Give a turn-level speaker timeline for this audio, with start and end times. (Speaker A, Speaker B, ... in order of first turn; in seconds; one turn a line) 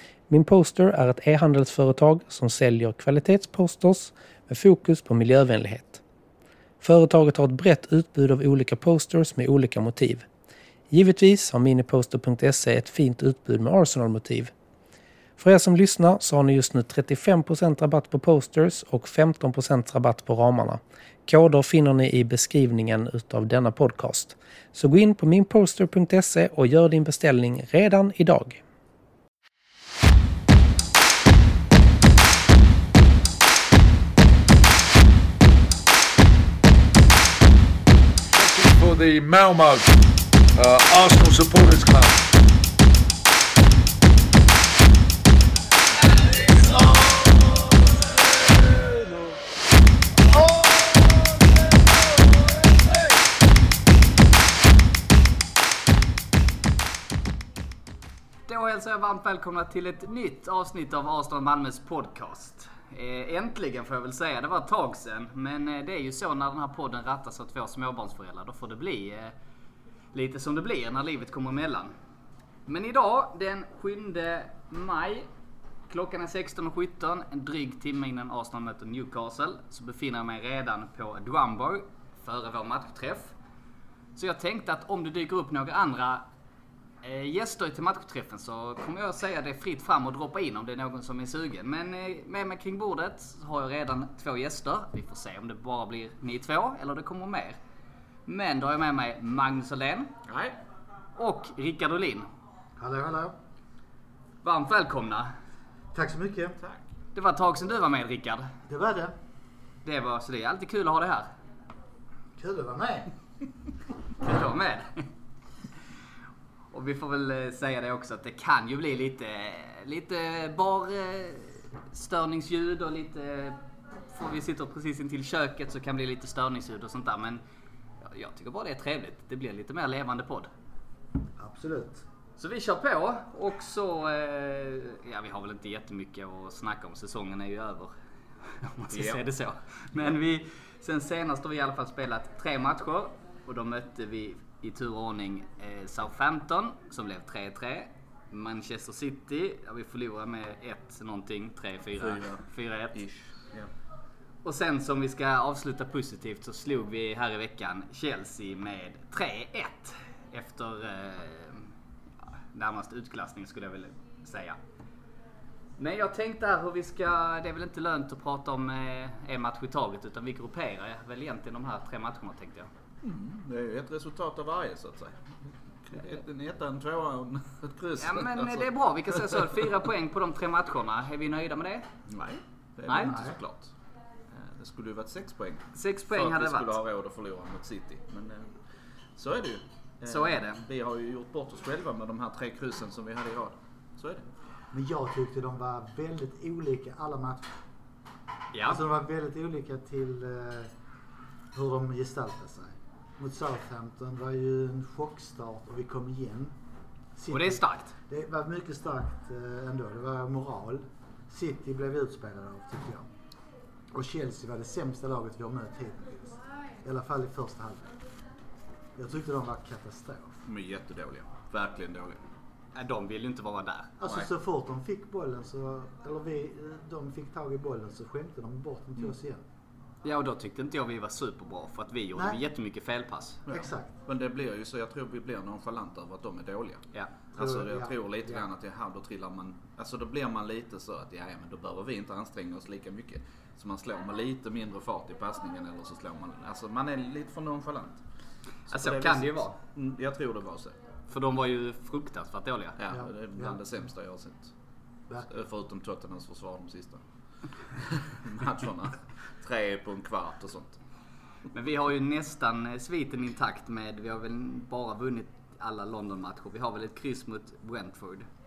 Speaker A: 0.3-6.0
Speaker A: 6.8-10.3
Speaker A: 10.9-14.5
Speaker A: 15.4-28.6
Speaker B: 38.3-40.0
Speaker B: 40.6-42.2
Speaker B: 46.8-47.2
Speaker B: 50.4-50.8
Speaker C: 58.5-69.3
Speaker C: 70.1-71.9
Speaker C: 72.7-75.3
Speaker C: 75.9-83.3
Speaker C: 84.2-86.2
Speaker C: 87.0-97.6
Speaker C: 98.3-100.1
Speaker D: 100.3-100.5
Speaker C: 101.2-102.3
Speaker E: 102.8-103.3
Speaker C: 104.4-105.3
Speaker E: 105.9-106.6
Speaker C: 107.2-108.5
Speaker E: 108.7-109.1
Speaker C: 109.8-111.3
Speaker E: 112.4-113.1
Speaker C: 114.2-115.1
Speaker C: 116.7-127.4
Speaker C: 128.0-130.5
Speaker E: 131.4-132.0
Speaker C: 132.4-137.9
Speaker C: 138.5-153.0
Speaker D: 138.9-139.2
Speaker D: 152.0-153.7
Speaker C: 154.4-161.7
Speaker C: 162.5-164.6
Speaker C: 165.8-172.7
Speaker D: 173.0-175.2
Speaker D: 175.8-179.7
Speaker C: 178.0-181.9
Speaker D: 182.1-183.7
Speaker C: 182.9-183.2
Speaker E: 182.9-183.4
Speaker D: 184.3-188.5
Speaker C: 185.7-186.8
Speaker D: 189.2-194.3
Speaker C: 190.1-190.6
Speaker E: 194.7-197.5
Speaker C: 198.5-198.8
Speaker E: 198.7-200.7
Speaker E: 201.5-206.6
Speaker E: 207.2-213.1
Speaker C: 207.3-207.9
Speaker E: 213.9-217.9
Speaker E: 219.0-220.4
Speaker D: 220.4-222.2
Speaker C: 222.8-223.9
Speaker E: 224.0-229.4
Speaker C: 230.0-233.4
Speaker D: 233.5-248.0
Speaker E: 233.5-233.9
Speaker E: 237.4-238.4
Speaker D: 248.7-250.8
Speaker C: 248.7-249.6
Speaker C: 251.1-252.8
Speaker D: 252.8-254.5
Speaker E: 252.9-253.6
Speaker D: 255.2-257.0
Speaker D: 257.8-260.8
Speaker C: 261.5-268.3